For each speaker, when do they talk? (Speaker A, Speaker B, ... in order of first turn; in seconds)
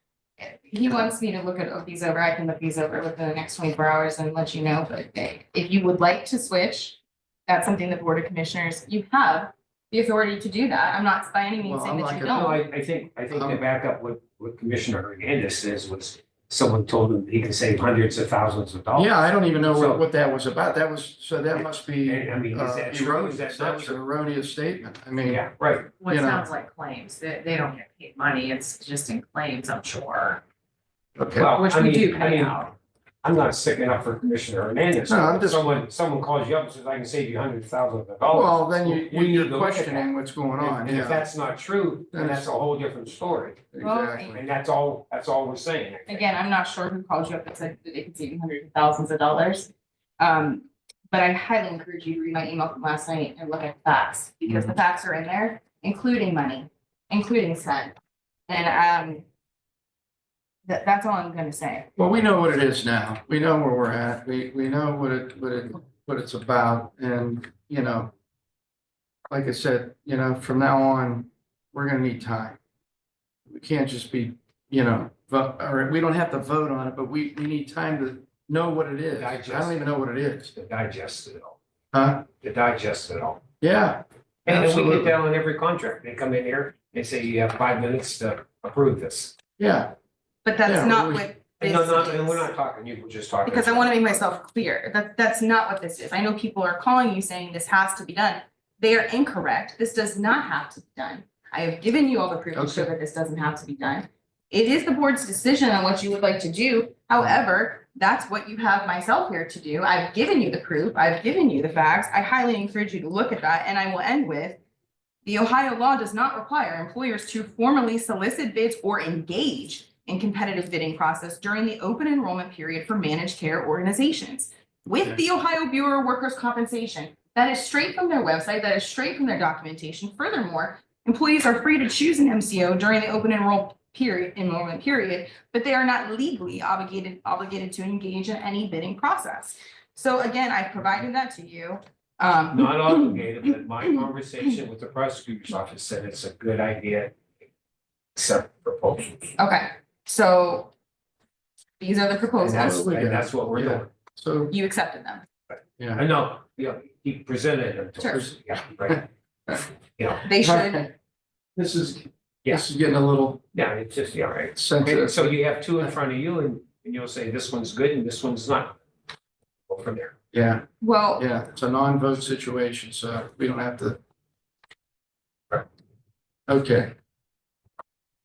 Speaker A: 0.4-12.6, 43.8-44.4, 46.1-58.0, 58.5-59.2, 60.7-61.9, 90.5-92.5, 93.5-114.6, 115.3-143.3, 149.4-150.7, 151.8-152.8, 154.5-155.3, 160.2-160.8, 170.8-171.2
Speaker B: 11.6-12.5, 13.3-13.6, 18.9-25.4, 26.1-26.5, 31.2-31.5, 35.1-35.8, 38.3-41.3, 42.1-42.5, 43.7-44.4, 62.0-68.1, 69.3-72.6, 73.5-80.5, 81.9-82.3, 83.6-85.2, 89.6-89.9, 90.7-91.3, 102.5-102.9, 152.5-154.6, 155.8-156.0, 158.9-159.7, 160.4-160.9, 161.6-163.4, 164.6-165.9, 170.3-170.7, 171.2-174.0, 176.5-176.9
Speaker C: 12.3-20.0, 22.0-24.0, 25.2-25.9, 31.4-32.7, 33.2-43.7, 44.3-46.3, 79.1-79.9, 80.5-81.6, 82.4-83.4, 84.5-89.3, 91.6-94.4, 142.5-147.2, 148.2-149.4, 152.4-153.9, 155.5-159.1, 160.0-160.3, 163.5-168.8, 169.7-170.2
Speaker D: 26.0-30.4, 31.5-32.7